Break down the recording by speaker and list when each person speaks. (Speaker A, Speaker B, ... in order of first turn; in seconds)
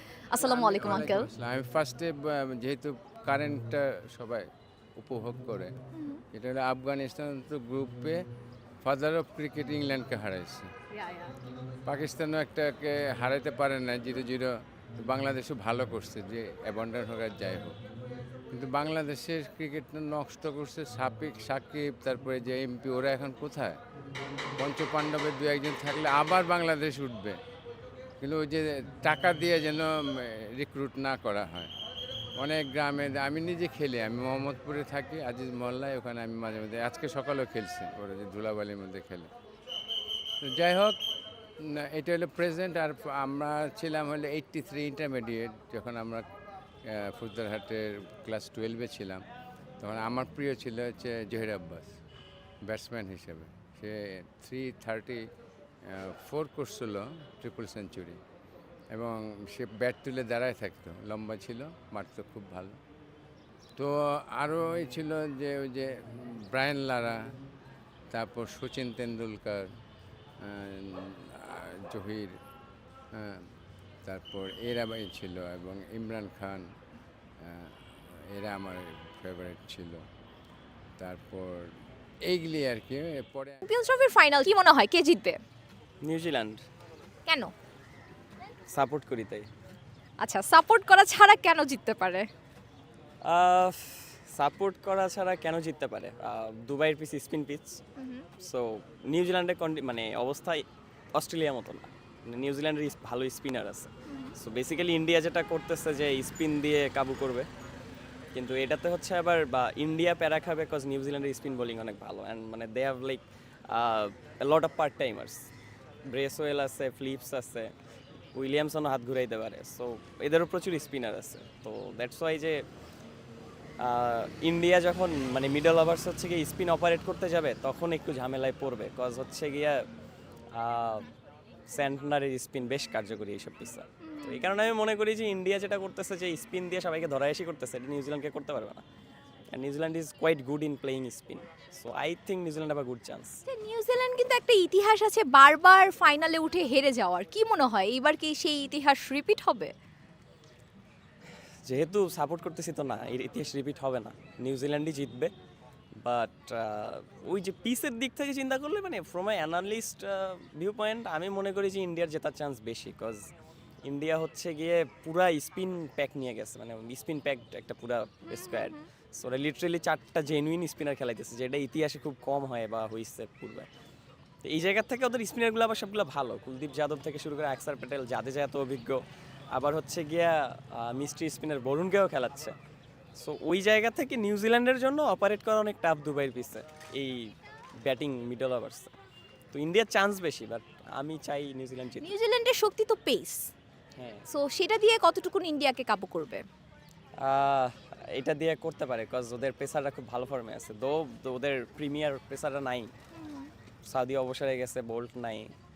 Speaker A: 0.3-1.3, 5.9-6.2, 11.0-11.3, 83.6-85.4, 87.3-87.5, 90.2-92.3, 98.0-98.3, 104.1-104.4, 134.0-134.5, 143.4-149.7, 168.3-168.9, 192.0-193.5, 194.3-196.4, 203.1-203.5
Speaker B: 0.4-4.5, 5.0-5.7, 6.3-8.2, 8.8-10.7, 11.8-17.7, 18.5-23.8, 24.6-27.4, 28.2-31.7, 32.4-39.3, 40.4-41.0, 41.6-46.3, 46.9-49.2, 49.8-51.9, 52.6-55.2, 55.9-58.2, 58.9-62.8, 63.8-67.2, 68.1-69.7, 70.4-72.3, 73.2-73.5, 74.0-76.6, 77.4-77.7, 78.3-80.0, 81.0-81.7, 82.3-83.6
Speaker C: 86.0-86.6, 88.7-89.5, 93.2-97.8, 98.4-100.6, 101.2-107.5, 108.3-115.5, 116.1-117.7, 118.3-122.6, 123.8-129.8, 130.6-131.1, 131.7-138.8, 139.5-143.4, 151.7-155.3, 156.0-163.3, 163.8-173.7, 174.4-179.0, 179.6-182.6, 183.2-187.2, 187.8-188.9, 189.5-192.1, 194.0-194.3, 197.2-202.9, 203.9-205.5